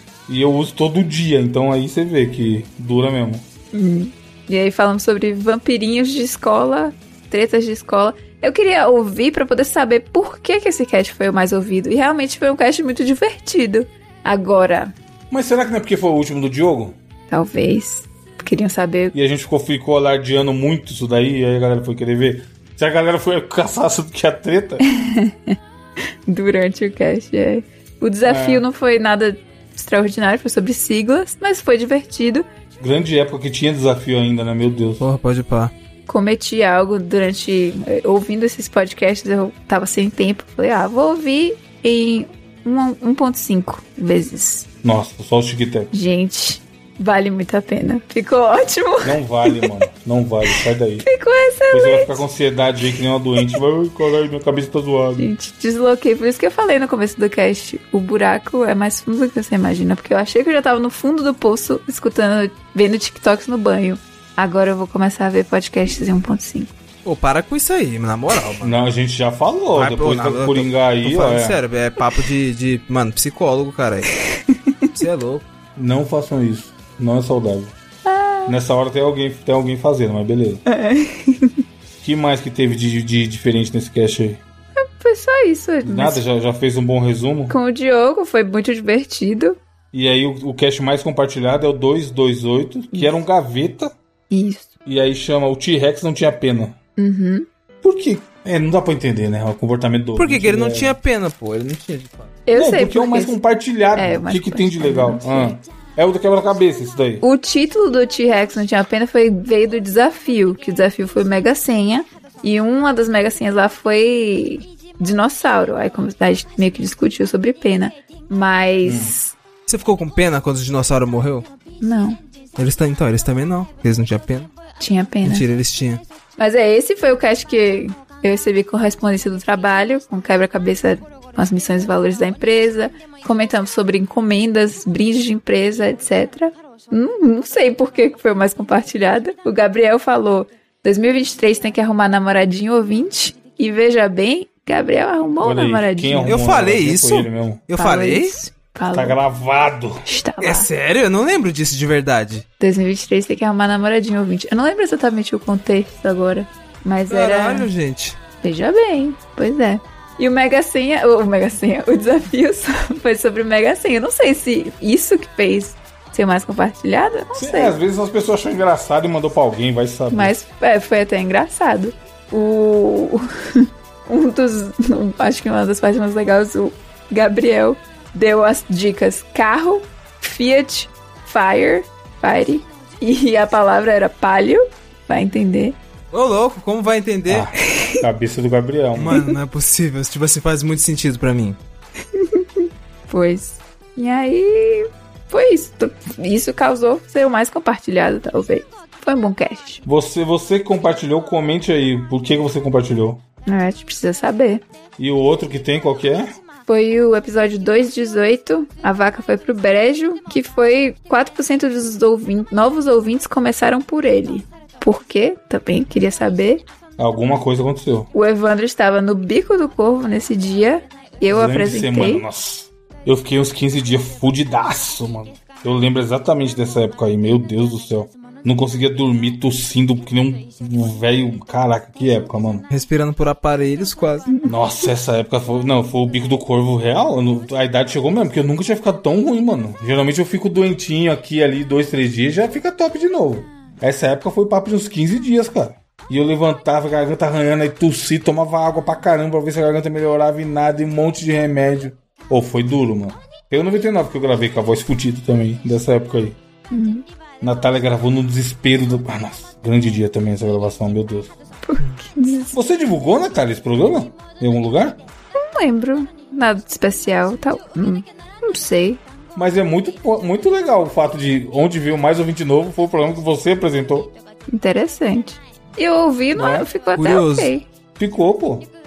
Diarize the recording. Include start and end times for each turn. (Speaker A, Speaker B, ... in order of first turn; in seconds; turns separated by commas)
Speaker A: 0.3-3.4, Speaker B: 3.7-14.9, Speaker A: 15.3-17.0, Speaker B: 17.3-19.1, Speaker A: 19.1-24.8, Speaker B: 24.9-25.6, Speaker B: 26.3-32.5, Speaker A: 28.2-28.6, Speaker A: 32.8-35.0, Speaker C: 35.0-35.7, Speaker B: 36.1-44.7, Speaker A: 44.8-45.9, Speaker B: 45.9-49.7, Speaker A: 49.0-51.0, Speaker B: 51.0-52.2, Speaker A: 51.7-55.3, Speaker B: 55.2-66.7, Speaker C: 67.0-68.8, Speaker A: 68.6-71.6, Speaker C: 69.7-74.1, Speaker B: 74.3-74.9, Speaker C: 75.0-75.5, Speaker A: 75.8-77.7, Speaker B: 78.0-78.5, Speaker A: 78.5-80.6, Speaker B: 80.7-81.6, Speaker A: 82.0-84.4, Speaker B: 84.8-86.2, Speaker A: 85.8-87.5, Speaker B: 87.5-89.6, Speaker A: 89.9-93.9, Speaker B: 94.3-94.7, Speaker A: 94.8-96.8, Speaker B: 97.0-97.5, Speaker A: 97.8-101.0, Speaker C: 100.2-102.3, Speaker B: 102.5-103.4, Speaker A: 102.5-107.2, Speaker B: 104.0-105.5, Speaker B: 107.2-119.3, Speaker A: 118.8-119.1, Speaker C: 119.7-121.5, Speaker B: 121.8-122.2, Speaker C: 122.6-124.5, Speaker B: 124.8-125.4, Speaker C: 125.2-126.0, Speaker B: 126.4-146.4, Speaker A: 145.4-147.6, Speaker C: 146.2-148.3, Speaker B: 147.8-149.2, Speaker A: 148.9-150.0, Speaker B: 150.0-150.7, Speaker C: 150.4-152.4, Speaker B: 152.6-157.7, Speaker C: 157.1-158.2, Speaker B: 158.4-167.7, Speaker A: 167.3-170.3, Speaker B: 170.1-185.8, Speaker C: 186.1-187.5, Speaker A: 187.3-189.2, Speaker C: 188.9-191.6, Speaker B: 192.1-199.8, Speaker A: 199.8-203.2, Speaker B: 203.5-204.6, Speaker A: 205.0-206.3, Speaker B: 206.7-216.6, Speaker A: 217.0-218.1, Speaker B: 218.1-222.2, Speaker A: 221.3-232.7, Speaker C: 232.7-234.3, Speaker B: 234.3-234.5, Speaker A: 234.4-256.4, Speaker B: 256.7-257.0, Speaker A: 257.4-261.3, Speaker B: 261.6-262.6, Speaker A: 262.5-265.0, Speaker B: 265.4-269.0, Speaker A: 269.4-274.1, Speaker B: 274.5-277.6, Speaker A: 276.3-276.7, Speaker C: 276.9-277.5, Speaker A: 278.0-278.7